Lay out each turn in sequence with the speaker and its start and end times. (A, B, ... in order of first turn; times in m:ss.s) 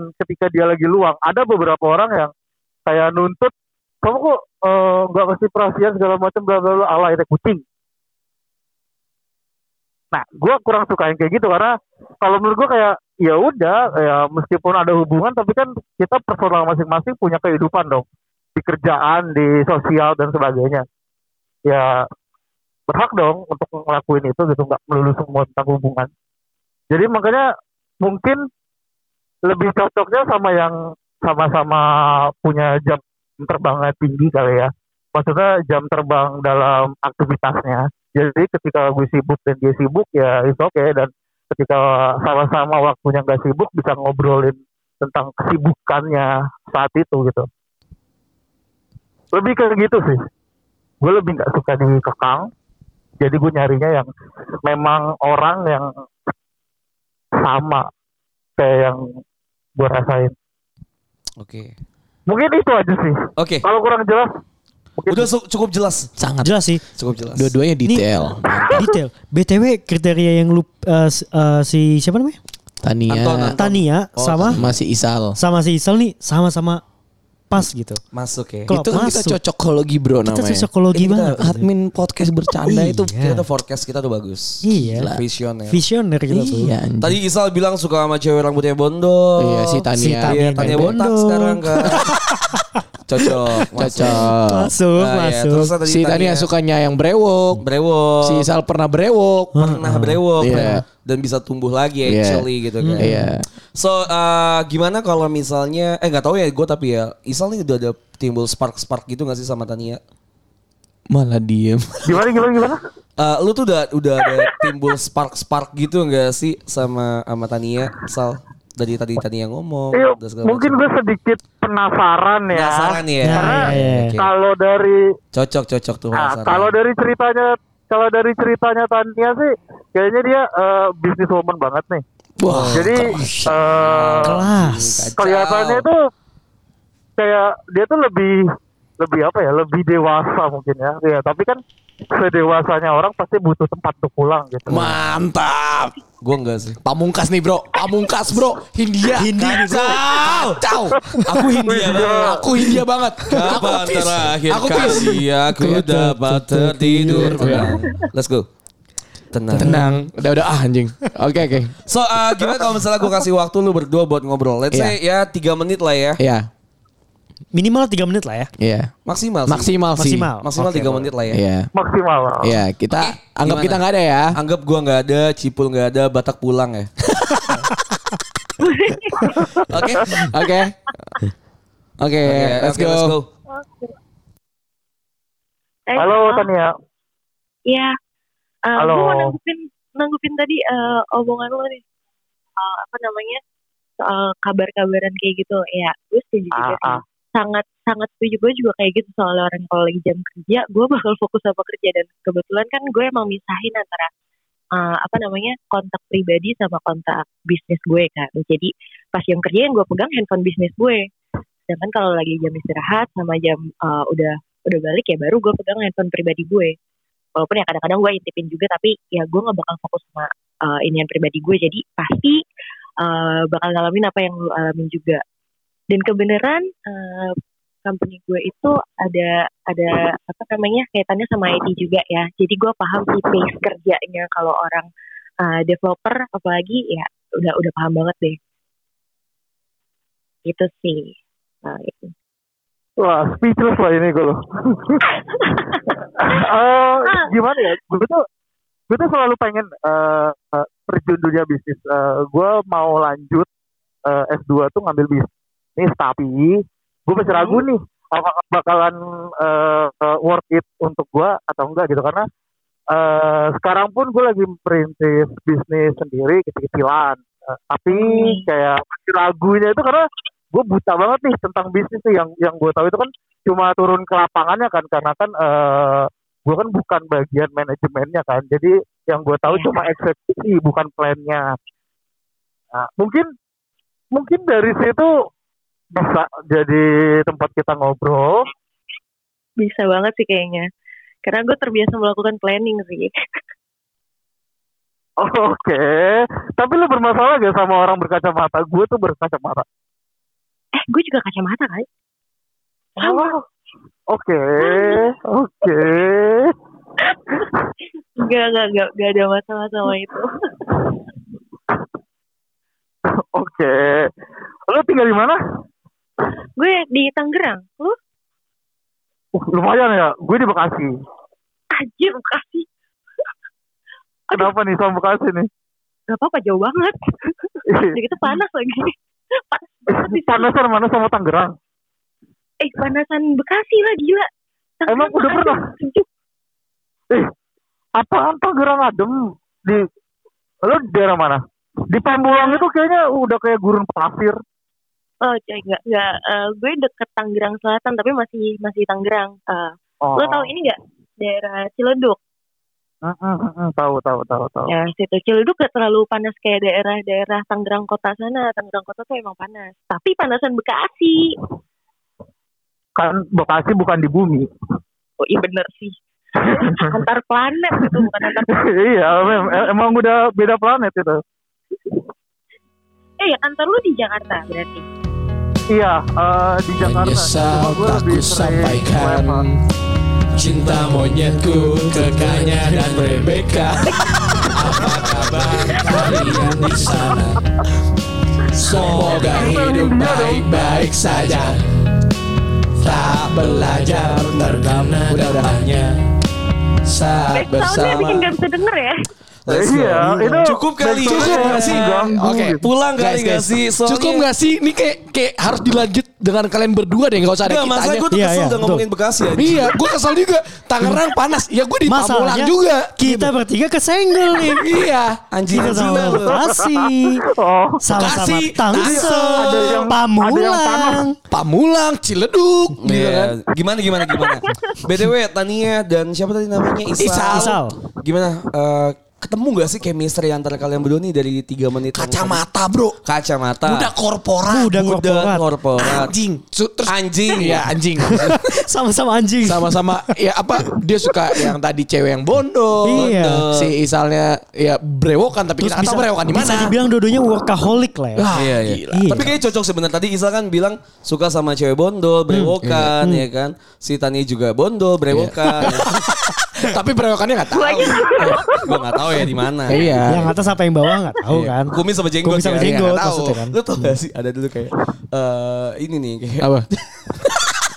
0:00.2-0:02.3 A
0:02.9-0:03.5 A
0:04.0-0:07.6 A
0:10.1-0:18.0 A
0:18.6-0:20.8 A
0:21.6-0:22.0 A
0:22.9-0:26.1 A
0:26.9-0:27.4 A
0:28.0-0:28.4 A
0:29.5-0:31.8 A
0:32.4-0:47.4 A
0:49.3-0:50.2 A
0:51.0-0:52.5 A
0:53.2-0:54.1 A
0:54.6-0:55.9 A
0:57.4-0:57.8 A
0:58.6-0:59.0 A
0:59.8-1:00.3 A
1:01.4-1:01.7 B
1:02.3-1:04.3 A
1:03.4-1:03.6 B
1:05.0-1:05.3 A
1:05.1-1:06.1 B
1:06.2-1:06.5 C
1:06.4-1:06.8 D
1:07.0-1:07.5 B
1:07.4-1:08.7 C
1:07.8-1:12.4 D
1:12.8-1:13.6 C
1:13.1-1:14.6 B
1:13.6-1:14.6 D
1:14.5-1:15.4 C
1:15.4-1:16.8 D
1:17.5-1:18.0 D
1:18.1-1:18.7 B
1:18.7-1:19.4 D
1:18.7-1:20.7 C
1:20.2-1:21.7 D
1:20.9-1:21.4 B
1:21.4-1:23.1 C
1:22.6-1:23.4 D
1:23.0-1:25.8 B
1:24.6-1:25.1 D
1:25.0-1:25.2 C
1:25.7-1:26.7 D
1:26.3-1:27.2 C
1:27.0-1:32.0 B
1:29.4-1:31.0 C
1:30.0-1:33.3 D
1:33.1-1:34.3 B
1:33.7-1:34.7 C
1:34.5-1:35.7 D
1:35.0-1:36.5 B
1:35.8-1:37.6 C
1:37.6-1:38.4 B
1:38.2-1:39.5 C
1:39.5-1:43.2 B
1:39.5-1:40.8 D
1:40.4-1:40.8 C
1:42.0-1:43.4 C
1:42.8-1:43.3 D
1:43.7-1:50.0 B
1:51.1-1:52.2 C
1:52.0-1:52.8 A
1:53.2-2:00.8 B
1:54.2-1:54.6 A
1:59.9-2:05.0 A
2:02.5-2:04.3 B
2:03.2-2:04.2 D
2:05.3-2:06.7 B
2:06.1-2:12.0 A
2:12.4-2:13.5 C
2:12.5-2:15.8 B
2:12.7-2:14.4 A
2:14.2-2:15.1 D
2:15.2-2:16.0 A
2:17.2-2:18.3 A
2:19.0-2:21.6 A
2:22.2-2:24.9 A
2:24.7-2:26.0 C
2:26.2-2:26.8 B
2:26.8-2:29.6 C
2:29.1-2:30.1 D
2:29.4-2:30.6 B
2:30.2-2:31.0 C
2:31.1-2:32.8 A
2:31.2-2:32.4 B
2:32.2-2:37.8 C
2:33.3-2:38.5 B
2:36.9-2:37.8 D
2:39.3-2:39.8 B
2:39.5-2:41.7 C
2:39.6-2:40.0 D
2:41.8-2:46.2 B
2:44.7-2:45.0 C
2:46.2-2:46.5 C
2:47.5-2:48.5 D
2:48.6-2:48.9 C
2:49.0-2:49.7 B
2:49.4-2:50.3 C
2:50.0-2:51.0 D
2:50.4-2:51.4 B
2:51.3-2:51.7 C
2:51.7-2:52.6 A
2:52.4-2:54.3 C
2:52.9-2:53.8 B
2:54.3-2:56.9 B
2:57.2-2:57.5 C
2:58.6-2:59.4 E
2:59.2-2:59.7 A
2:59.7-3:00.3 B
3:00.2-3:00.7 C
3:02.0-3:03.1 C
3:02.2-3:03.3 B
3:03.6-3:03.9 E
3:05.9-3:06.5 E
3:05.9-3:06.7 A
3:07.7-3:07.9 E
3:08.6-3:11.8 E
3:08.8-3:09.3 A
3:12.6-3:13.4 E
3:14.0-3:24.1 E
3:16.5-3:17.0 A
3:24.8-3:31.0 E
3:31.7-3:36.7 E
3:37.4-3:42.4 E
3:43.0-3:45.2 E
3:45.9-3:54.9 E
3:55.4-3:58.4 E
4:00.4-4:02.1 E
4:03.0-4:05.0 A
4:06.2-4:08.2 A
4:08.9-4:13.5 A
4:14.1-4:22.2 A
4:17.3-4:17.6 E
4:22.9-4:41.5 A
4:27.9-4:28.4 E
4:42.7-4:43.3 A
4:44.1-4:45.1 A
4:46.0-4:48.4 A
4:49.6-4:50.7 E
4:51.2-4:53.1 E
4:55.2-4:59.6 A
5:00.7-5:01.9 E
5:03.0-5:03.4 E
5:03.0-5:03.4 A
5:04.1-5:06.5 A
5:04.6-5:05.0 E
5:07.0-5:07.5 E
5:08.2-5:10.9 E
5:13.3-5:14.1 A
5:14.7-5:15.4 A
5:16.6-5:18.0 E
5:19.3-5:20.9 A
5:21.7-5:22.6 E
5:24.3-5:25.5 A
5:26.1-5:28.9 E
5:27.7-5:28.0 A
5:29.5-5:30.5 E
5:29.9-5:31.5 A
5:32.6-5:34.3 E
5:34.8-5:36.0 E
5:34.9-5:35.6 A
5:38.0-5:39.8 A
5:40.6-5:44.4 A
5:42.3-5:42.6 E
5:45.2-5:52.2 E
5:50.0-5:50.5 A
5:53.0-5:54.7 A
5:54.7-6:01.3 E
6:03.0-6:04.4 A
6:05.2-6:09.7 E
6:06.4-6:07.0 A
6:07.8-6:11.2 A
6:13.2-6:14.8 E
6:15.7-6:19.4 A
6:16.8-6:19.6 C
6:20.3-6:27.4 C
6:24.5-6:27.3 B
6:28.5-6:31.9 C
6:28.8-6:30.5 A
6:32.8-6:36.0 C
6:33.4-6:35.8 B
6:36.8-6:38.3 C
6:37.3-6:39.0 E
6:39.5-6:44.2 B
6:39.5-6:42.7 A
6:41.0-6:48.1 C
6:47.4-6:49.8 B
6:48.1-6:48.8 D
6:49.3-6:53.3 C
6:51.9-6:54.7 D
6:54.4-6:55.2 C
6:55.3-6:56.4 B
6:55.5-6:57.2 D
6:55.9-6:57.9 A
6:57.8-7:01.1 D
6:57.9-6:59.7 C
6:58.8-7:01.1 A
7:01.3-7:03.4 C
7:02.8-7:12.4 B
7:07.0-7:07.6 C
7:07.3-7:07.8 D
7:11.9-7:13.0 C
7:13.0-7:13.9 B
7:13.6-7:14.8 C
7:14.5-7:15.4 D
7:14.7-7:16.1 B
7:15.8-7:18.4 C
7:16.9-7:18.3 B
7:18.0-7:19.8 D
7:19.4-7:26.7 C
7:22.9-7:23.4 D
7:22.9-7:23.7 B
7:25.6-7:28.3 D
7:28.2-7:29.0 C
7:28.3-7:35.9 B
7:28.9-7:29.3 D
7:32.3-7:33.2 D
7:32.6-7:32.9 C
7:35.1-7:38.4 C
7:37.5-7:39.3 E
7:37.6-7:40.1 B
7:39.7-7:40.3 C
7:40.1-7:43.9 D
7:41.7-7:46.5 B
7:46.4-7:47.5 C